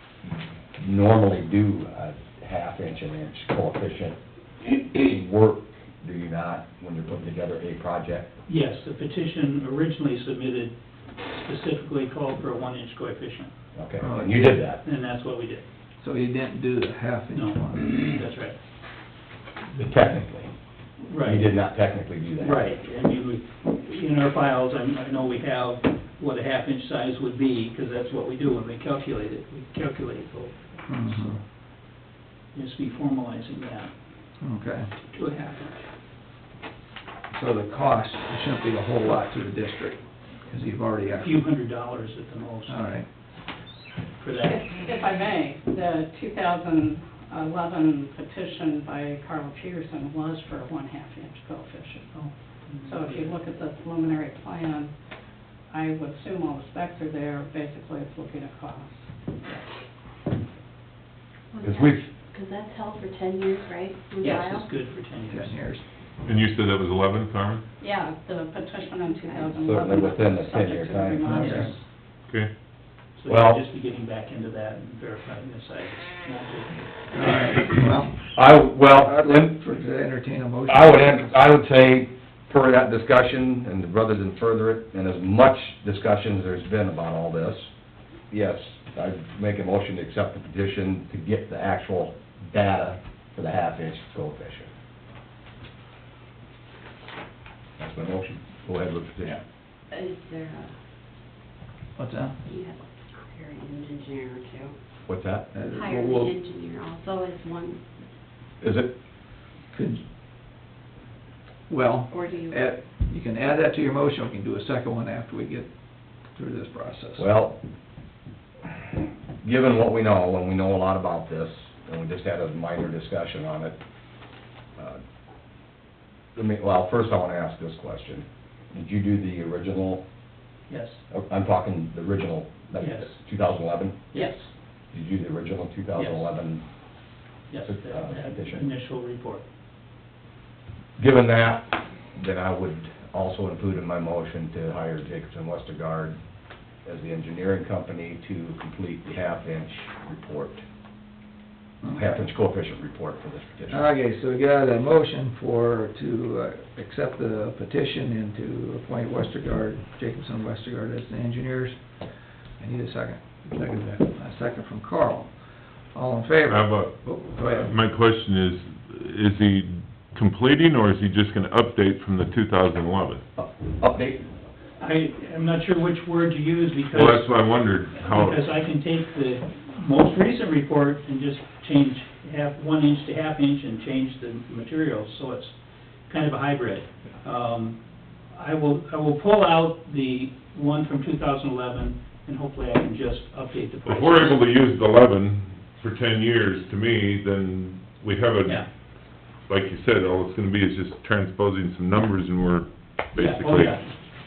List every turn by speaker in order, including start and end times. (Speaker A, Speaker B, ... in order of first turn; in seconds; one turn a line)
Speaker A: 0.8-8.3
Speaker B: 8.5-10.8
Speaker B: 11.4-13.5
Speaker A: 13.8-14.8
Speaker C: 14.0-14.5
Speaker B: 14.8-15.6
Speaker C: 16.0-18.1
Speaker B: 17.3-18.6
Speaker A: 19.8-20.5
Speaker B: 21.0-21.5
Speaker A: 21.2-22.6
Speaker B: 22.4-31.4
Speaker C: 30.9-31.4
Speaker B: 32.5-33.9
Speaker C: 34.4-34.9
Speaker B: 35.1-35.8
Speaker C: 37.3-41.4
Speaker B: 41.2-42.8
Speaker C: 42.7-43.1
Speaker B: 44.2-44.7
Speaker D: 44.4-52.2
Speaker B: 52.2-53.4
Speaker D: 52.8-54.9
Speaker D: 55.7-59.1
Speaker E: 61.5-64.7
Speaker A: 61.6-62.1
Speaker D: 64.2-64.5
Speaker B: 64.3-65.6
Speaker C: 65.3-65.8
Speaker F: 66.2-67.6
Speaker D: 67.8-71.8
Speaker E: 69.0-69.5
Speaker A: 69.5-71.7
Speaker C: 71.2-71.7
Speaker B: 73.2-77.4
Speaker A: 73.3-73.6
Speaker C: 77.1-78.3
Speaker A: 78.3-79.6
Speaker C: 78.9-81.4
Speaker A: 80.7-87.7
Speaker A: 88.3-94.7
Speaker A: 97.8-99.4
Speaker E: 99.9-100.7
Speaker C: 102.0-102.4
Speaker E: 102.5-104.8
Speaker A: 105.1-105.5
Speaker C: 105.5-106.3
Speaker E: 105.7-107.8
Speaker A: 108.6-108.9
Speaker C: 109.7-110.0
Speaker C: 111.7-115.7
Speaker E: 112.1-112.7
Speaker C: 116.3-117.3
Speaker A: 117.2-117.6
Speaker A: 119.4-123.8
Speaker A: 126.3-130.0
Speaker B: 130.7-131.0
Speaker A: 131.1-134.0
Speaker B: 132.8-133.2
Speaker B: 134.1-134.5
Speaker A: 134.9-136.6
Speaker B: 136.0-136.3
Speaker B: 137.5-139.4
Speaker A: 137.7-138.7
Speaker A: 141.0-146.2
Speaker A: 146.8-150.6
Speaker C: 151.8-152.2
Speaker A: 151.9-153.8
Speaker C: 153.7-161.8
Speaker C: 162.6-165.3
Speaker C: 165.9-167.8
Speaker F: 166.5-173.2
Speaker A: 173.4-174.2
Speaker B: 174.8-177.3
Speaker F: 176.9-178.4
Speaker B: 178.0-185.6
Speaker B: 186.1-187.8
Speaker B: 188.3-194.4
Speaker F: 193.8-198.7
Speaker F: 199.5-203.8
Speaker B: 203.2-203.9